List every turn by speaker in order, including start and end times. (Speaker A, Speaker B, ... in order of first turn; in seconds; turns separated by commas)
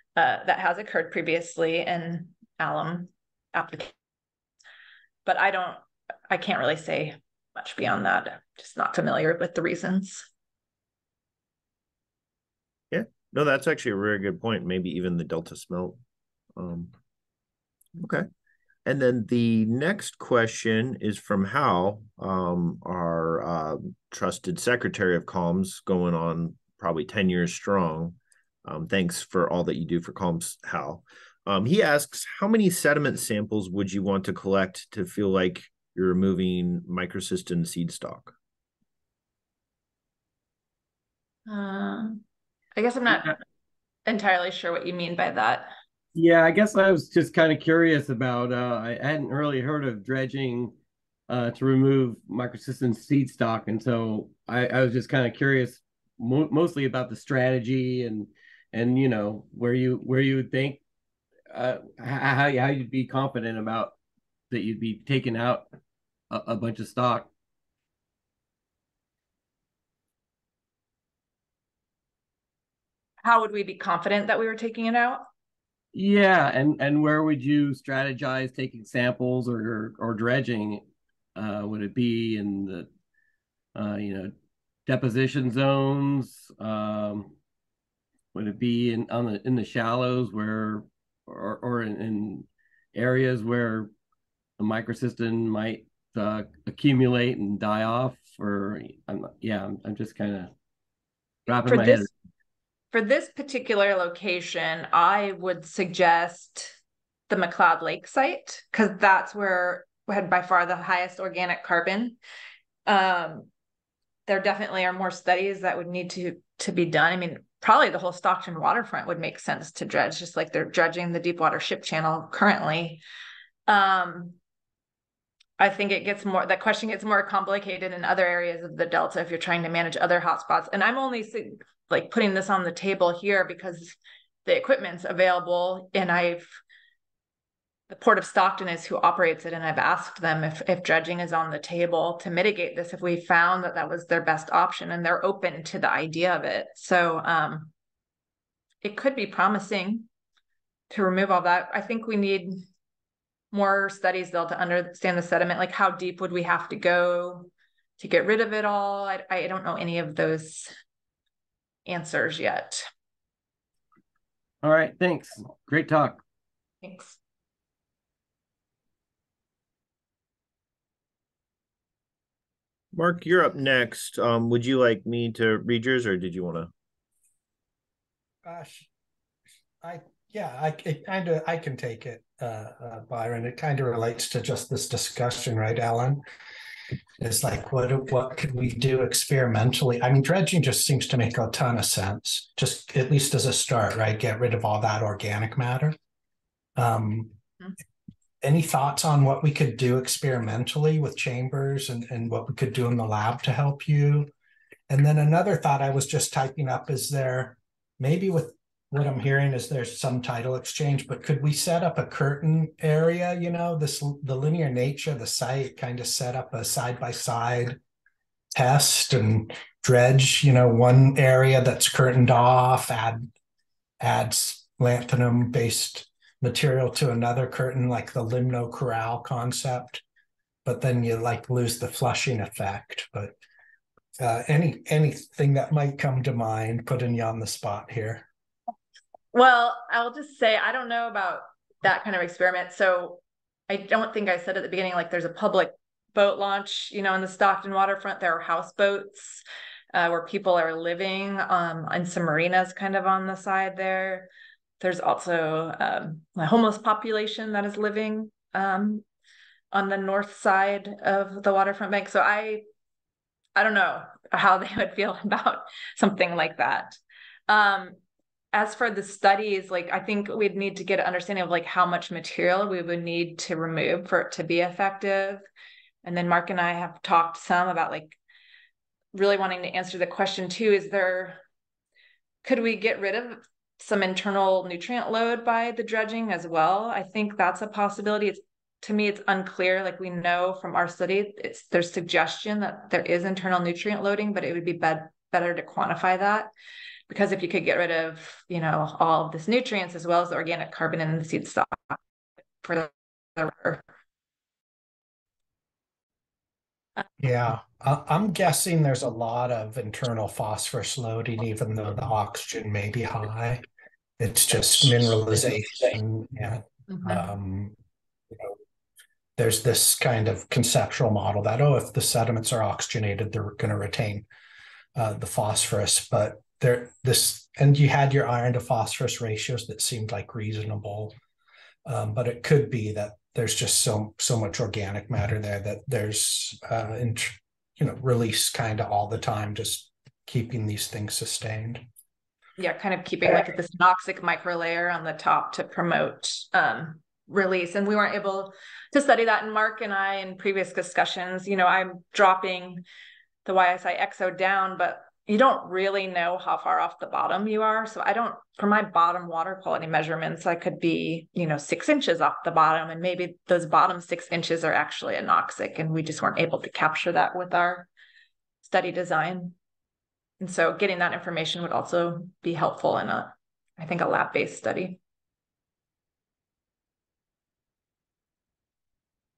Speaker A: 0.1-3.9, Speaker A: 5.2-10.3, Speaker B: 12.9-16.0, Speaker B: 16.6-16.9, Speaker B: 18.0-18.3, Speaker B: 18.8-38.3, Speaker A: 41.5-42.2, Speaker A: 42.7-43.4, Speaker A: 44.0-45.7, Speaker C: 46.1-50.7, Speaker C: 51.3-60.8, Speaker C: 61.5-64.0, Speaker C: 64.5-65.7, Speaker C: 66.3-67.3, Speaker A: 73.2-75.2, Speaker C: 75.9-80.8, Speaker C: 81.3-82.9, Speaker C: 83.7-84.3, Speaker C: 84.8-87.3, Speaker C: 88.3-93.9, Speaker C: 94.6-100.5, Speaker C: 101.5-102.1, Speaker A: 101.6-102.0, Speaker A: 102.9-106.8, Speaker A: 107.3-112.2, Speaker A: 112.8-113.5, Speaker A: 114.2-123.0, Speaker A: 123.7-124.4, Speaker A: 125.6-136.6, Speaker A: 137.9-147.7, Speaker A: 148.8-150.1, Speaker A: 150.9-152.6, Speaker A: 153.5-160.7, Speaker A: 161.8-162.8, Speaker C: 164.6-166.2, Speaker A: 166.8-167.2, Speaker B: 172.9-176.7, Speaker D: 178.4-178.9, Speaker D: 179.8-186.2, Speaker D: 187.2-195.9, Speaker D: 196.8-197.3, Speaker D: 198.4-204.3, Speaker D: 204.9-217.8, Speaker D: 218.5-223.3, Speaker D: 224.0-230.0, Speaker D: 230.6-233.3, Speaker D: 234.2-238.2, Speaker A: 239.3-259.0, Speaker A: 259.7-262.6, Speaker A: 263.6-268.0, Speaker A: 268.5-275.4, Speaker A: 276.0-278.2, Speaker A: 279.1-281.4, Speaker A: 282.4-296.5, Speaker A: 297.1-302.0, Speaker A: 302.6-303.8, Speaker D: 307.2-313.6, Speaker D: 314.2-317.8, Speaker A: 316.9-317.2, Speaker D: 319.4-324.2, Speaker D: 324.9-331.1, Speaker D: 331.8-341.8, Speaker A: 342.6-352.8, Speaker A: 353.4-367.9, Speaker A: 368.6-369.6, Speaker A: 370.4-375.0